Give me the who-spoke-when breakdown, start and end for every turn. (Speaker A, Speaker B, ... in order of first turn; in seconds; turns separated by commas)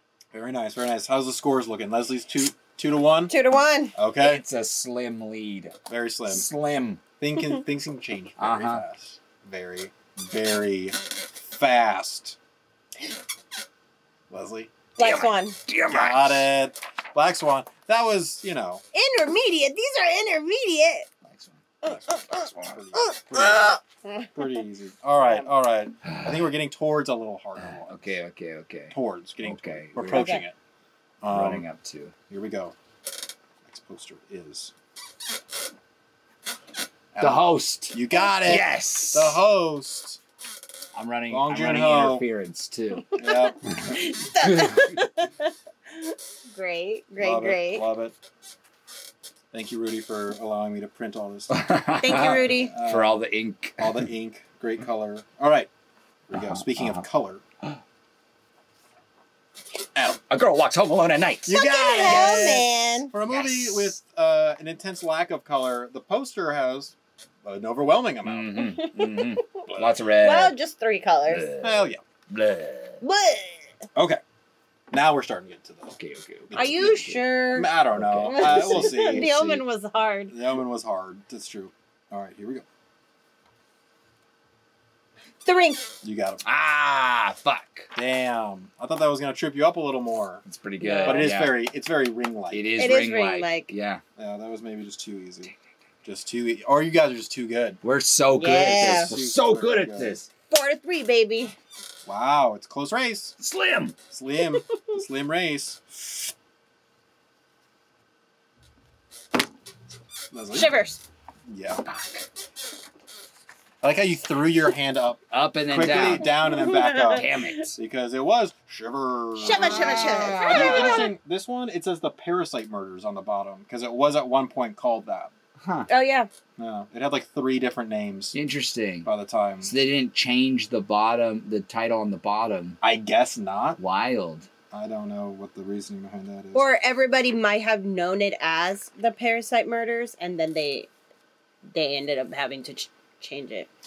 Speaker A: 0.3-3.3, Speaker B: 3.3-4.0, Speaker A: 4.0-4.4, Speaker C: 4.2-7.0, Speaker A: 5.9-6.5, Speaker A: 7.2-12.4, Speaker C: 8.4-8.8, Speaker A: 14.3-14.8, Speaker B: 15.0-15.6, Speaker C: 15.0-16.5, Speaker A: 15.9-18.8, Speaker B: 18.9-21.1, Speaker C: 21.2-22.8, Speaker A: 21.9-23.8, Speaker B: 21.9-22.2, Speaker B: 22.9-24.6, Speaker A: 24.4-28.2, Speaker B: 25.1-25.5, Speaker C: 26.1-26.5, Speaker C: 27.6-30.4, Speaker A: 28.9-30.6, Speaker B: 30.1-30.4, Speaker A: 31.2-31.7, Speaker C: 31.3-32.1, Speaker A: 32.3-32.8, Speaker A: 33.7-34.7, Speaker A: 37.1-40.2, Speaker C: 37.2-39.4, Speaker B: 38.1-38.6, Speaker C: 41.0-43.1, Speaker A: 41.3-42.3, Speaker B: 43.1-47.9, Speaker A: 43.1-43.6, Speaker C: 43.7-44.9, Speaker A: 47.2-48.1, Speaker A: 49.5-51.5, Speaker C: 51.5-54.1, Speaker B: 52.0-52.7, Speaker A: 52.2-53.2, Speaker A: 53.8-55.7, Speaker A: 56.3-57.4, Speaker C: 56.3-57.0, Speaker A: 60.0-60.2, Speaker C: 60.3-62.3, Speaker A: 61.5-68.7, Speaker B: 61.5-63.1, Speaker C: 63.3-64.0, Speaker C: 68.2-70.5, Speaker B: 68.6-69.7, Speaker A: 69.7-70.0, Speaker B: 70.2-71.5, Speaker C: 71.3-73.0, Speaker A: 71.6-72.0, Speaker B: 73.0-73.8, Speaker A: 74.0-74.2, Speaker A: 74.9-76.0, Speaker C: 75.9-77.2, Speaker A: 76.5-79.7, Speaker B: 76.5-77.7, Speaker C: 77.9-79.2, Speaker B: 78.2-80.4, Speaker A: 80.3-82.7, Speaker B: 85.4-85.9, Speaker A: 86.0-86.4, Speaker C: 86.5-87.9, Speaker A: 87.9-90.4, Speaker C: 90.5-91.6, Speaker B: 90.8-91.3, Speaker A: 91.0-92.8, Speaker C: 92.5-94.0, Speaker B: 92.8-93.7, Speaker A: 94.2-95.5, Speaker A: 96.0-97.8, Speaker C: 97.8-100.3, Speaker B: 98.3-99.1, Speaker A: 98.6-100.2, Speaker B: 100.5-101.5, Speaker A: 102.0-103.4, Speaker C: 103.4-104.0, Speaker A: 104.1-105.8, Speaker B: 104.6-105.0, Speaker A: 110.3-110.8, Speaker B: 110.5-111.0, Speaker A: 111.5-111.8, Speaker C: 111.8-112.3, Speaker A: 113.8-125.3, Speaker C: 115.3-117.8, Speaker B: 116.0-117.5, Speaker B: 119.4-121.1, Speaker C: 119.5-121.1, Speaker C: 125.6-125.9, Speaker B: 125.9-126.3, Speaker A: 126.6-128.4, Speaker C: 128.3-129.1, Speaker A: 129.0-129.8, Speaker C: 129.6-132.8, Speaker A: 132.8-133.8, Speaker C: 133.8-134.5, Speaker A: 134.7-136.7, Speaker B: 136.5-140.9, Speaker B: 141.7-143.7